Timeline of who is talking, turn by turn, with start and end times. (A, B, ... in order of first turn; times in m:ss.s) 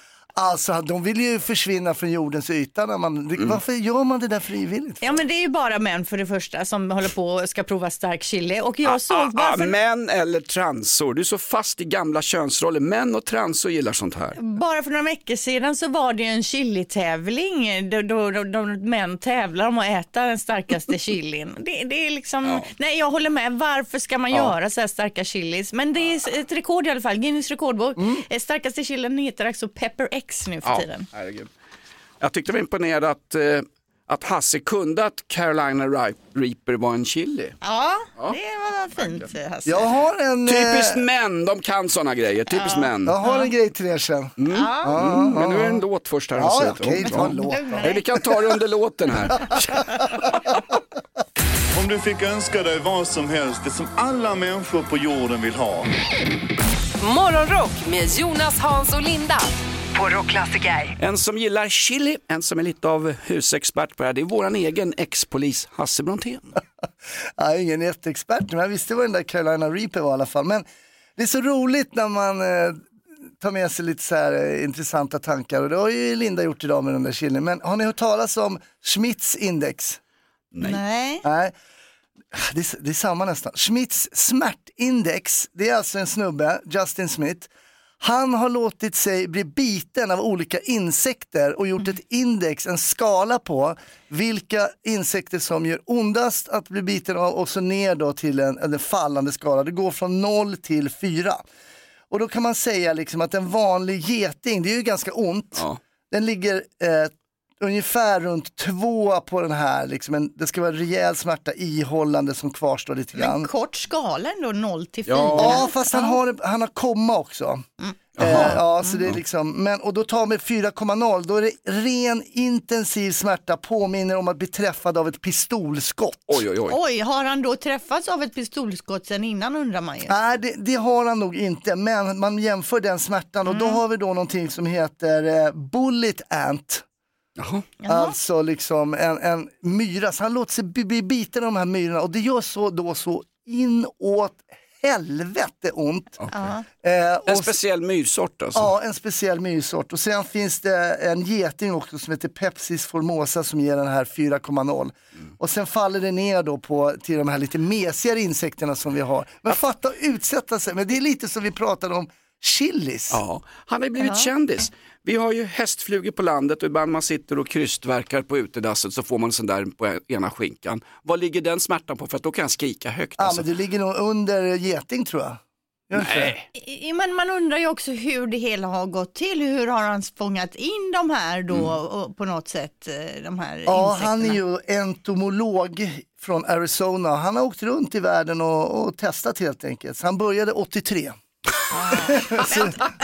0:00.4-0:05.2 A
0:05.0-0:09.7 B
0:08.8-0:14.4 C
0:14.4-0:31.0 B
0:22.4-0:22.7 C
0:28.0-0:28.2 A
0:30.6-0:31.5 C
0:32.2-0:37.6 C
0:37.6-0:39.9 B
0:39.6-0:41.0 A
0:40.4-0:43.2 C
0:42.5-0:43.5 B
0:43.0-0:45.8 A
0:44.4-0:50.5 C
0:44.5-0:45.0 B
0:46.3-0:48.0 A
0:47.1-0:48.0 B
0:51.7-0:55.9 D
0:57.0-1:00.9 E
1:01.0-1:06.6 C
1:07.4-1:10.6 A
1:11.2-1:12.8 A
1:13.4-1:20.0 A
1:20.5-1:20.8 C
1:20.6-1:21.2 B
1:21.2-1:21.5 A
1:22.3-1:27.5 A
1:28.0-1:41.4 A
1:42.1-1:53.5 A
1:53.2-1:56.2 B
1:55.1-1:55.6 C
1:55.3-1:57.6 A
1:58.2-1:59.2 C
1:58.2-2:06.4 A
2:06.3-2:06.8 C
2:06.7-2:10.1 B
2:10.1-2:16.8 A
2:13.5-2:13.8 B
2:17.4-2:17.7 C
2:17.8-2:18.1 B
2:17.9-2:26.2 A
2:26.3-2:26.6 B
2:26.8-2:27.5 A
2:27.3-2:28.7 C
2:28.5-2:43.2 A
2:43.1-2:53.4 C
2:44.0-2:44.3 B
2:53.2-2:56.3 A
2:56.0-2:56.4 C
2:56.5-3:04.4 B
3:03.7-3:11.2 A
3:11.7-3:12.8 B
3:12.1-3:12.7 A